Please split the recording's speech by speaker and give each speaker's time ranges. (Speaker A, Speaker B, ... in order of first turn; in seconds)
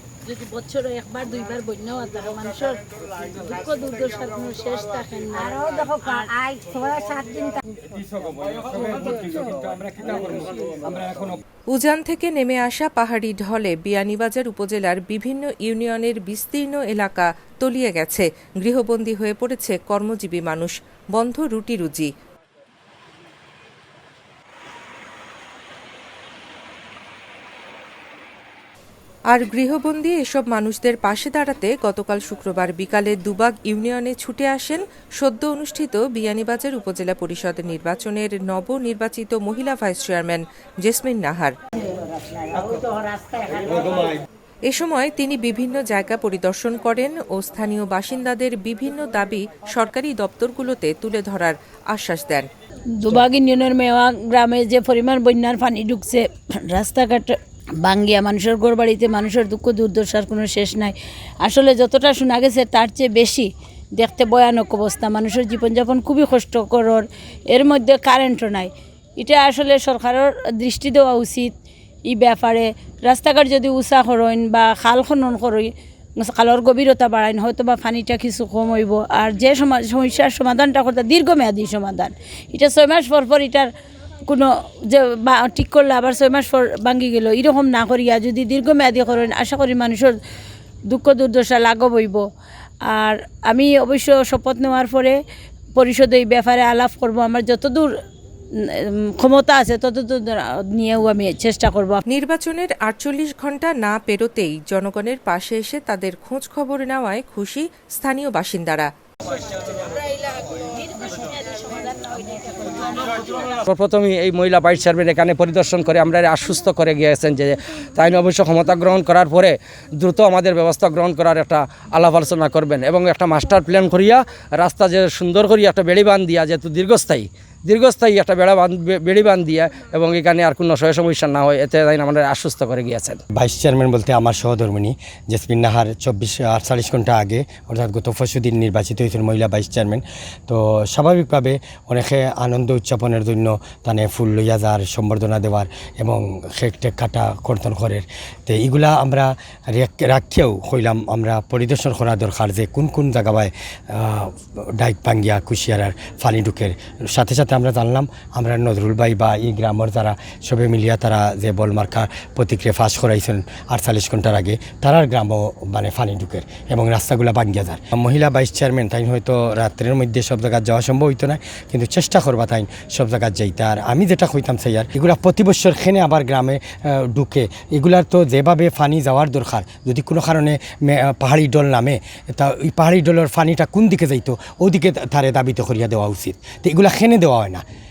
Speaker A: 0.2-6.3, 53.0-71.5, 72.1-83.7, 84.3-90.2, 90.9-92.2, 92.9-95.2, 95.8-97.9, 99.2-102.0
Speaker B: 5.6-7.6, 42.1-43.6
Speaker C: 7.9-11.3, 113.4-133.2
Speaker D: 11.7-22.1, 29.3-41.5, 44.7-52.5, 102.1-108.9
Speaker E: 133.3-187.6